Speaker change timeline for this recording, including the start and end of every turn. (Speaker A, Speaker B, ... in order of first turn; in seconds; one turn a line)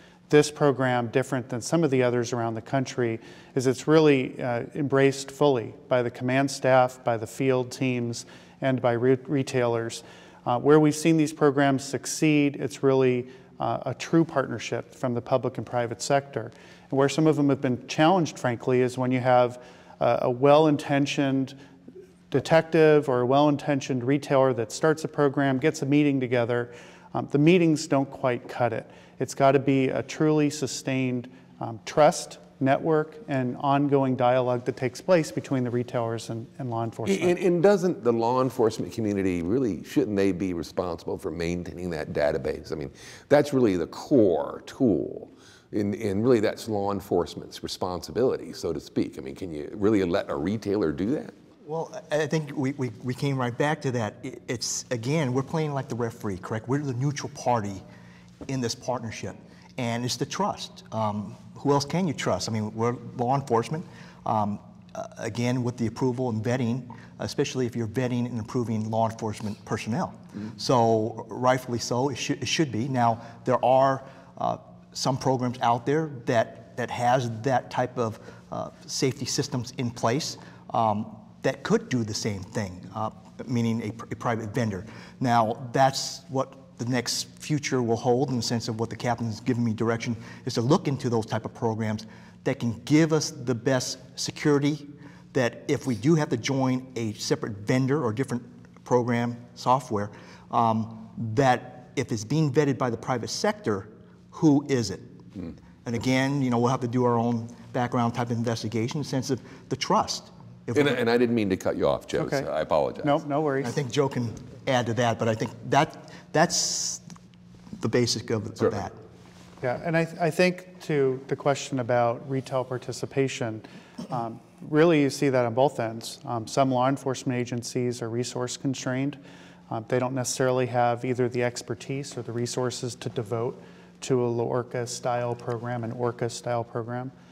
Speaker A: 0.3-21.5
Speaker A: 22.3-37.4
Speaker B: 37.0-51.3
Speaker C: 51.6-57.8
Speaker C: 58.5-105.2
Speaker C: 105.8-111.0
Speaker B: 110.7-113.2
Speaker A: 112.2-112.5
Speaker A: 113.0-113.8
Speaker C: 113.6-117.1
Speaker C: 117.7-118.9
Speaker A: 119.6-137.1